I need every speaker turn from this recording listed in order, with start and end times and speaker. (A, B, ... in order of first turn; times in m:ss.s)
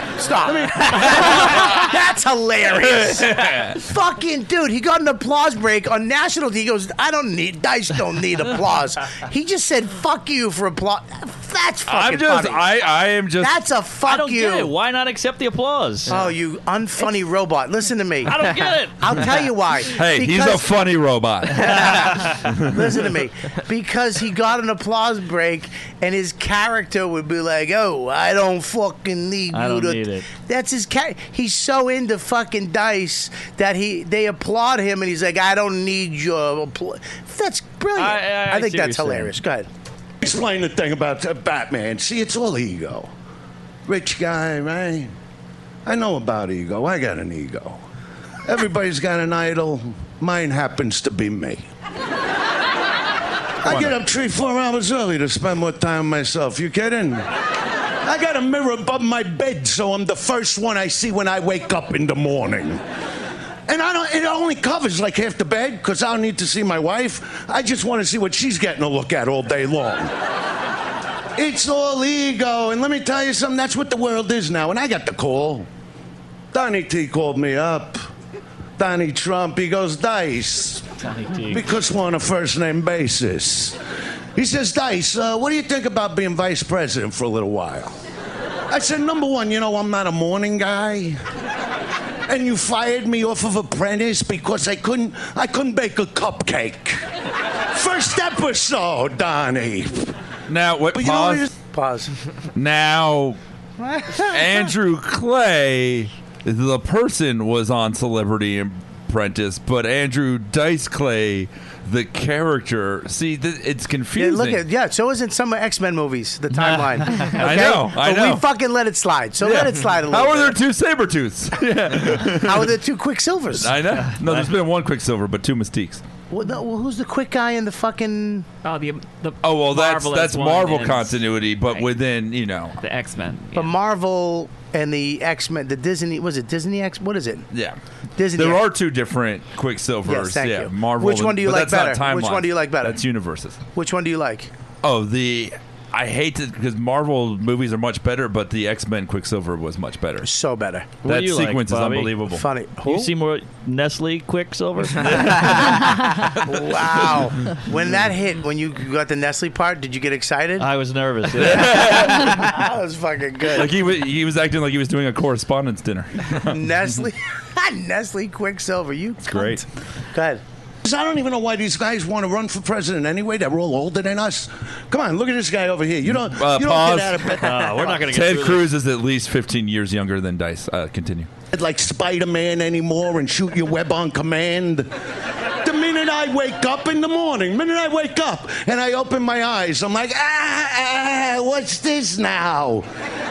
0:00.1-0:12.6 A
0:00.5-0:00.8 B
0:02.7-0:03.8 C
0:11.9-0:13.6 C
0:13.4-0:14.7 A
0:14.0-0:16.2 D
0:16.1-0:20.7 A
0:18.2-0:19.4 D
0:19.9-0:23.0 C
0:21.5-0:39.7 A
0:29.5-0:30.3 D
0:37.9-0:39.4 D
0:40.2-0:43.1 B
0:43.9-0:45.1 B
0:45.8-0:47.8 B
0:48.4-0:51.6 B
0:53.6-0:57.3 B
0:53.6-0:54.0 C
0:58.0-1:02.8 B
1:03.7-1:10.1 B
1:11.4-1:15.7 B
1:16.5-1:18.0 B
1:18.8-1:20.9 B
1:21.0-1:21.6 D
1:21.4-1:23.8 B
1:24.4-1:28.0 B
1:28.7-1:31.2 B
1:32.3-1:37.0 B
1:37.7-1:40.1 B
1:40.5-1:41.5 C
1:40.9-1:41.5 B
1:41.7-1:42.1 A
1:42.5-1:43.4 C
1:43.8-1:44.7 A
1:44.2-1:54.6 C
1:54.2-2:00.6 A
1:57.2-1:58.4 C
1:59.4-2:02.8 C
2:02.2-2:03.8 A
2:03.5-2:06.0 C
2:04.1-2:04.5 D
2:06.3-2:08.4 A
2:08.6-2:11.9 E
2:09.4-2:12.8 C
2:12.8-2:13.7 E
2:13.5-2:17.5 A
2:17.5-2:17.8 C
2:18.2-2:18.6 A
2:18.3-2:23.6 C
2:20.0-2:23.0 A
2:23.7-2:24.5 A
2:24.8-2:30.3 C
2:30.2-2:31.0 A
2:31.0-2:32.2 D
2:31.0-2:32.4 C
2:32.3-2:33.1 A
2:32.8-2:36.0 D
2:35.0-2:37.3 C
2:36.4-2:40.7 A
2:40.6-2:42.3 D
2:41.3-2:43.7 A
2:41.4-2:42.5 C
2:43.5-2:47.0 C
2:46.4-2:50.4 A
2:49.3-2:49.6 C
2:50.8-2:58.0 B
2:56.0-2:57.4 C
2:57.4-2:58.7 D
2:58.1-3:01.3 C
3:01.5-3:04.9 B
3:05.6-3:12.8 B